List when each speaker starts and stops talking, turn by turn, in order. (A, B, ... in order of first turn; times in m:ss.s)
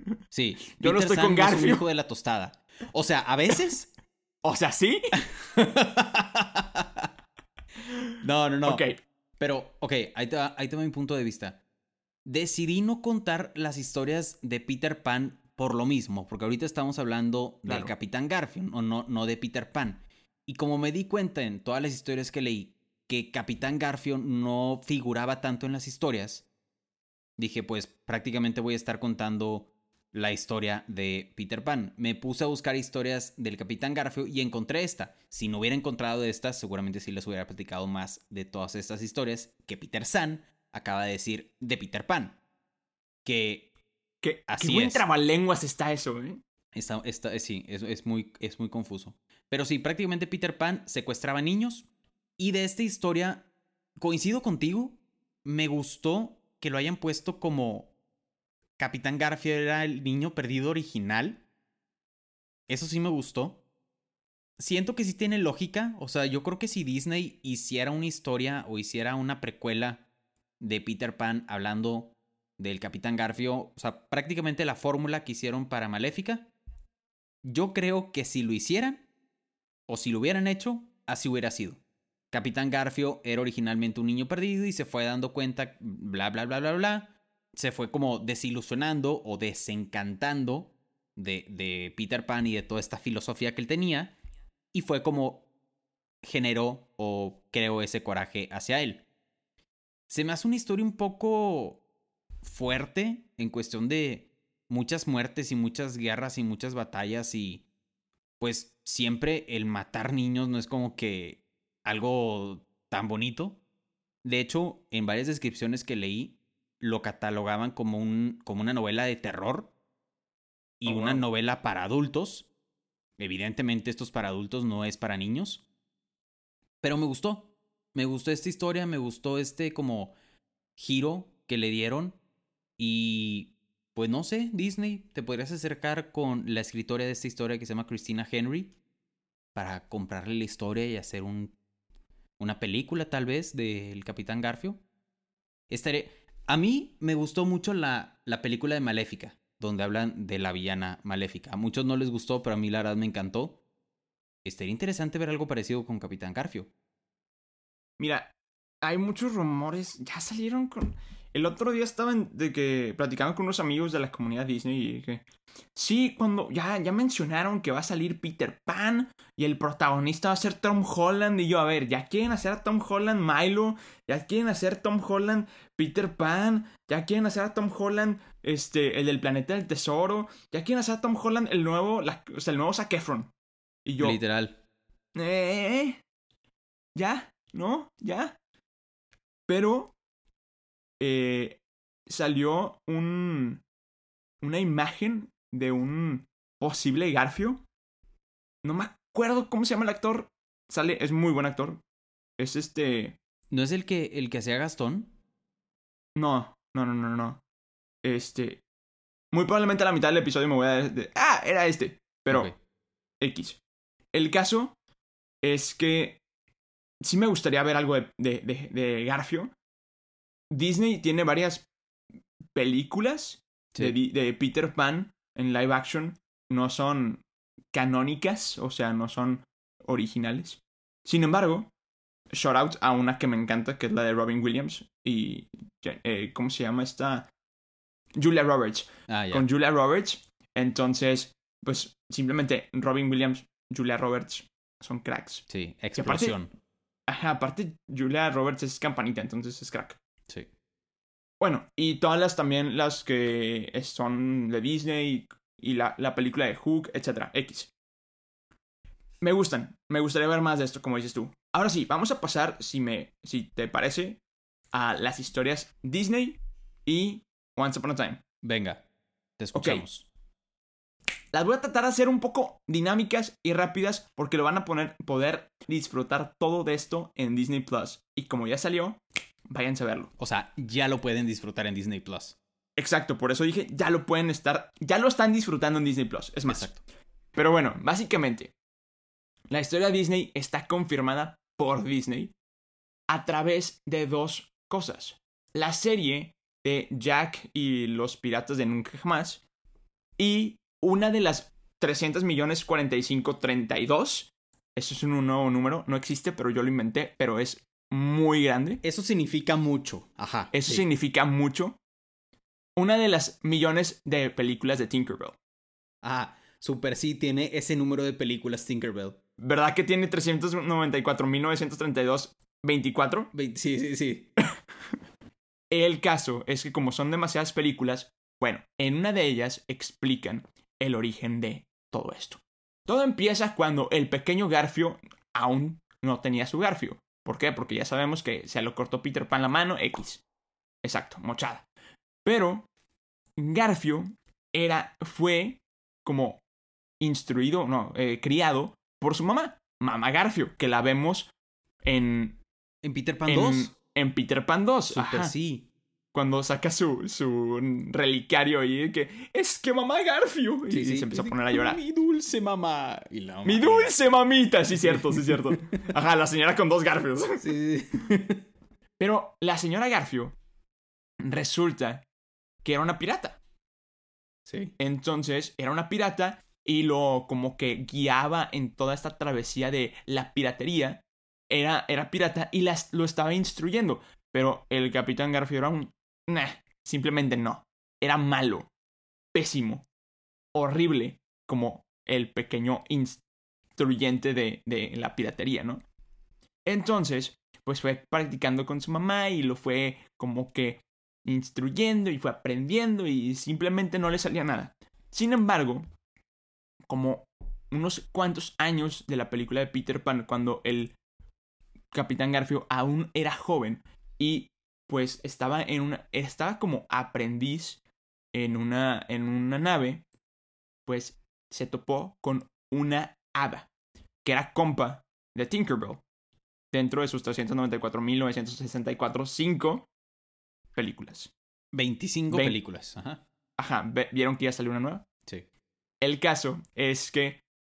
0:00.3-0:03.9 A
0:00.7-0:01.8 B
0:04.4-0:05.1 B
0:05.4-0:07.1 A
0:08.2-0:08.8 A
0:08.6-0:09.0 B
0:09.4-0:11.6 A
0:12.2-0:26.5 A
0:17.6-0:17.9 B
0:27.4-0:42.4 A
0:43.2-0:43.7 A
0:44.2-0:46.4 B
0:44.5-0:45.0 A
0:46.7-0:57.9 A
0:58.8-1:01.4 A
1:02.7-1:03.6 A
1:04.6-1:10.1 A
1:10.6-1:16.5 A
1:17.4-1:19.1 A
1:19.9-1:34.2 A
1:34.7-1:35.5 A
1:36.2-1:39.0 A
1:40.1-1:41.8 A
1:42.4-1:47.6 A
1:48.4-1:53.6 A
1:54.2-1:59.7 A
2:00.8-2:02.5 A
2:00.8-2:01.2 B
2:03.2-2:05.6 A
2:06.8-2:10.2 A
2:10.8-2:12.2 A
2:12.8-2:18.8 A
2:19.5-2:21.6 A
2:22.4-2:24.8 A
2:25.7-2:33.6 A
2:34.4-2:36.7 A
2:38.0-2:45.2 B
2:45.7-3:03.3 B
3:03.8-3:04.2 B
3:04.0-3:04.6 A
3:05.1-3:06.0 B
3:06.9-3:08.4 B
3:09.5-3:09.9 B
3:11.0-3:13.6 B
3:14.4-3:17.6 B
3:18.6-3:21.8 B
3:22.4-3:23.2 B
3:23.5-3:25.1 A
3:26.2-3:27.4 B
3:28.0-3:28.6 B
3:29.3-3:32.5 B
3:32.3-3:32.6 A
3:33.2-3:33.6 B
3:34.1-3:34.8 B
3:35.4-3:36.2 B
3:37.0-3:39.5 B
3:40.5-3:41.6 B
3:42.5-3:51.7 B
3:52.3-3:57.3 B
3:58.2-4:06.4 B
3:59.1-3:59.4 A
4:05.5-4:06.5 A
4:07.1-4:10.0 B
4:11.4-4:17.7 B
4:19.2-4:24.2 B
4:24.7-4:28.2 B
4:28.4-4:28.8 A
4:29.4-4:30.1 A
4:29.5-4:29.8 B
4:31.3-4:40.1 B
4:40.2-4:42.4 A
4:42.8-4:46.8 B
4:46.5-4:46.8 A
4:47.3-4:48.5 B
4:49.5-4:52.3 B
4:53.1-4:59.4 B
5:00.2-5:08.8 B
5:08.8-5:10.8 A
5:10.5-5:11.8 B
5:12.8-5:15.4 B
5:16.0-5:19.2 A
5:19.4-5:23.3 B
5:23.3-5:24.3 A
5:25.7-5:40.2 B
5:40.8-5:41.6 B
5:42.2-5:42.7 B
5:43.4-5:46.4 B
5:47.0-5:51.3 B
5:51.8-5:52.4 B
5:52.8-5:53.7 A
5:53.2-5:55.3 B
5:54.9-5:55.7 A
5:56.1-6:01.8 B
6:00.7-6:03.9 A
6:03.4-6:07.5 B
6:04.8-6:05.8 A
6:07.4-6:08.4 A
6:09.0-6:10.3 B
6:11.2-6:12.0 B
6:12.6-6:13.4 B
6:14.4-6:14.7 A
6:14.8-6:28.7 B
6:29.3-6:29.8 B
6:30.5-6:33.2 B
6:33.8-6:35.8 B
6:36.6-6:45.8 B
6:46.9-6:51.0 B
6:51.9-6:57.8 B
6:58.3-7:00.0 B
7:00.8-7:03.7 B
7:04.2-7:06.0 B
7:06.7-7:09.9 B
7:10.8-7:11.3 B
7:11.7-7:13.2 A
7:12.3-7:12.6 B
7:13.6-7:15.0 B
7:16.0-7:17.4 B